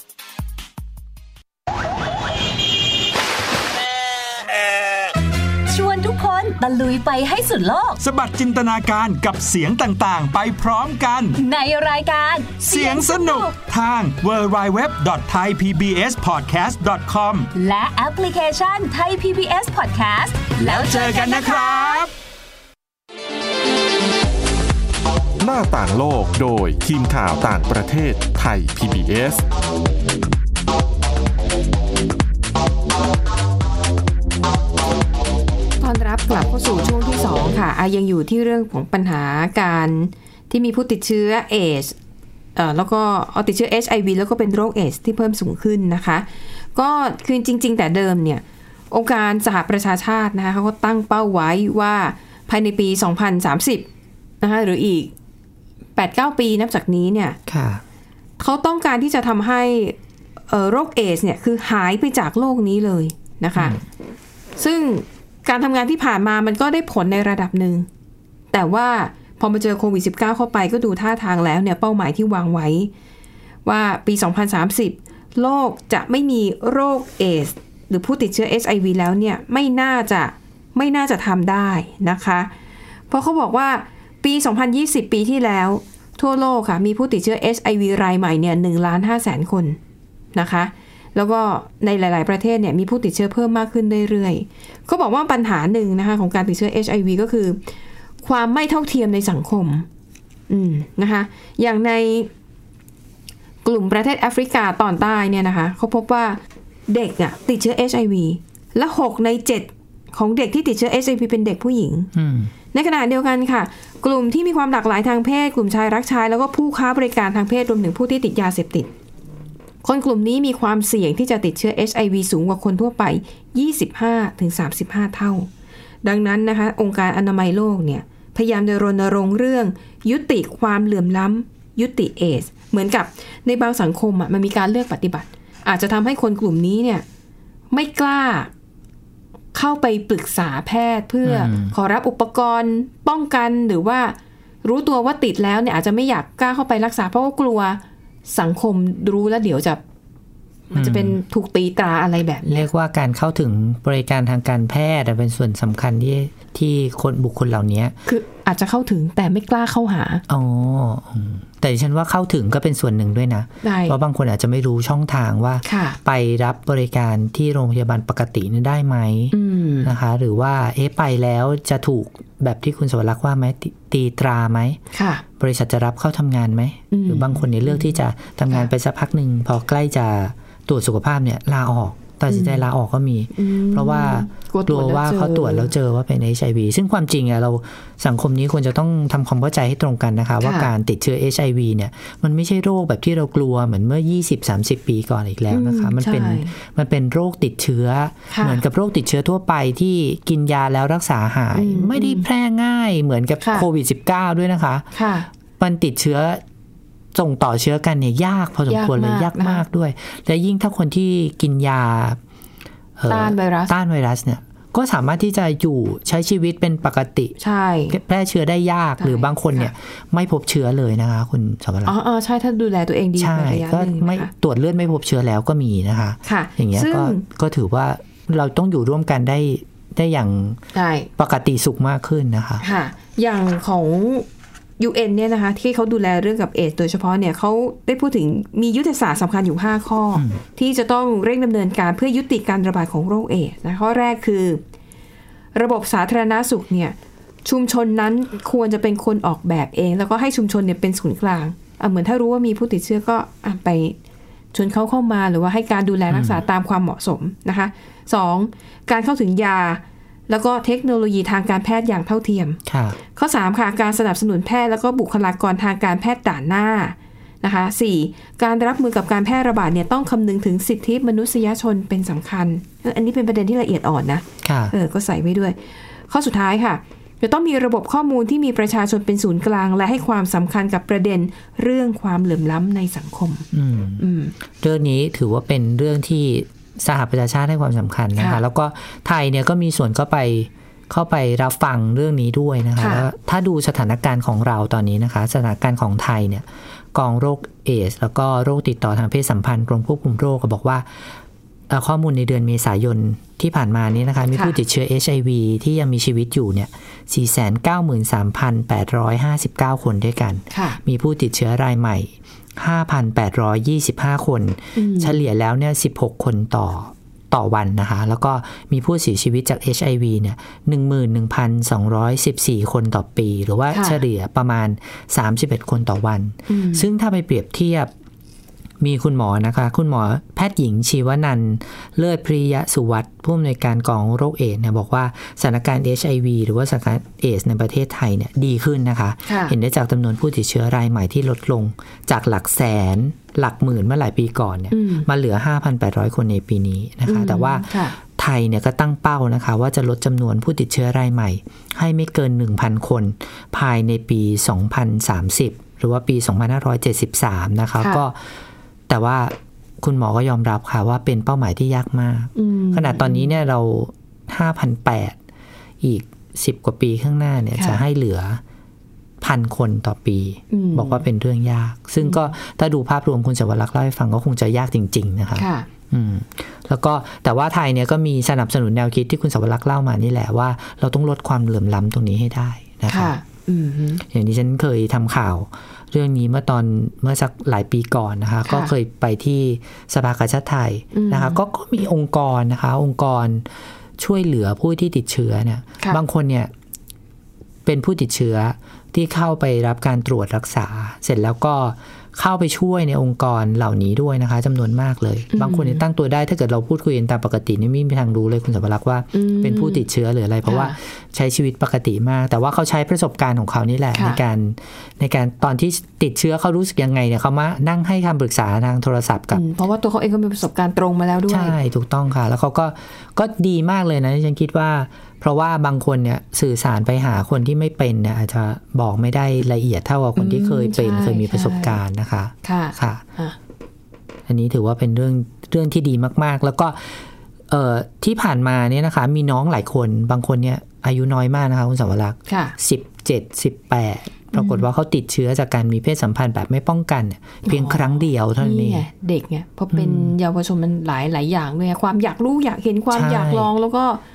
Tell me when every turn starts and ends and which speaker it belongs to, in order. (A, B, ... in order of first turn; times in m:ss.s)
0:05.7-0:08.0 A
0:08.0-0:11.4 B
0:11.4-0:13.6 A
0:12.6-0:17.5 B
0:17.5-0:22.0 A
0:20.6-0:22.1 B
0:25.4-0:29.4 C
0:35.8-0:42.0 D
0:42.6-0:53.9 D
0:54.4-0:55.1 D
0:56.0-0:57.4 D
0:57.5-0:57.8 E
0:58.4-1:00.0 D
1:00.5-1:03.8 D
1:03.6-1:03.8 E
1:04.6-1:07.9 D
1:08.5-1:12.9 D
1:13.6-1:22.5 D
1:23.1-1:29.8 D
1:30.3-1:37.6 D
1:38.2-1:39.9 D
1:40.5-1:42.3 D
1:43.6-1:52.1 D
1:52.1-1:52.5 E
1:52.7-1:58.9 D
1:59.8-2:05.5 D
2:06.0-2:17.0 D
2:17.7-2:18.5 D
2:19.5-2:29.8 D
2:21.2-2:21.8 E
2:30.7-2:32.7 D
2:30.7-2:31.2 E
2:32.5-2:38.0 E
2:38.1-2:40.2 D
2:40.3-2:54.8 E
2:43.6-2:44.0 D
2:45.6-2:46.0 D
2:49.3-2:49.9 D
2:54.9-2:55.2 D
2:55.4-3:24.9 E
2:56.9-2:58.0 D
3:02.3-3:02.6 D
3:03.4-3:05.7 D
3:10.4-3:10.7 D
3:15.5-3:16.5 D
3:18.3-3:18.6 D
3:21.6-3:22.2 D
3:24.9-3:25.3 D
3:25.6-3:26.4 E
3:27.1-3:32.2 E
3:28.7-3:29.6 D
3:33.0-3:37.4 E
3:33.1-3:33.7 D
3:37.4-3:38.0 D
3:37.9-3:42.0 E
3:39.0-3:39.7 D
3:41.9-3:44.3 D
3:43.2-3:50.6 E
3:46.3-3:47.2 D
3:50.7-3:51.1 D
3:51.2-3:52.6 E
3:52.6-3:54.3 D
3:54.8-4:04.6 D
4:00.2-4:00.4 E
4:05.6-4:14.0 D
4:14.5-4:22.6 D
4:16.1-4:16.4 E
4:22.7-4:23.0 E
4:23.2-4:35.6 D
4:34.4-4:34.7 E
4:36.1-4:43.5 D
4:43.5-5:01.1 E
4:44.0-4:44.3 D
4:52.8-4:53.1 D
5:01.7-5:27.9 E
5:10.5-5:10.8 D
5:14.8-5:15.2 D
5:23.7-5:24.0 D
5:26.5-5:26.9 D
5:28.8-5:58.2 E
5:39.3-5:39.6 D
5:44.7-5:45.1 D
5:47.1-5:48.0 D
5:58.9-6:05.2 E
6:02.4-6:03.3 D
6:05.8-6:08.4 E
6:07.6-6:07.8 D
6:09.2-6:23.1 E
6:10.5-6:11.0 D
6:12.0-6:12.3 D
6:15.4-6:15.7 D
6:22.9-6:24.0 D
6:24.0-6:36.5 E
6:28.4-6:28.7 D
6:30.9-6:31.4 D
6:37.6-6:59.4 E
6:45.3-6:45.8 D
6:49.1-6:49.8 D
6:50.4-6:50.8 D
6:54.0-6:54.2 D
6:59.3-7:01.6 D
7:01.3-7:13.0 E
7:10.2-7:11.8 D
7:12.4-7:13.4 D
7:14.3-7:28.8 E
7:22.3-7:22.6 D
7:24.3-7:24.7 D
7:27.4-7:34.0 D
7:29.7-7:30.2 E
7:32.9-7:33.5 E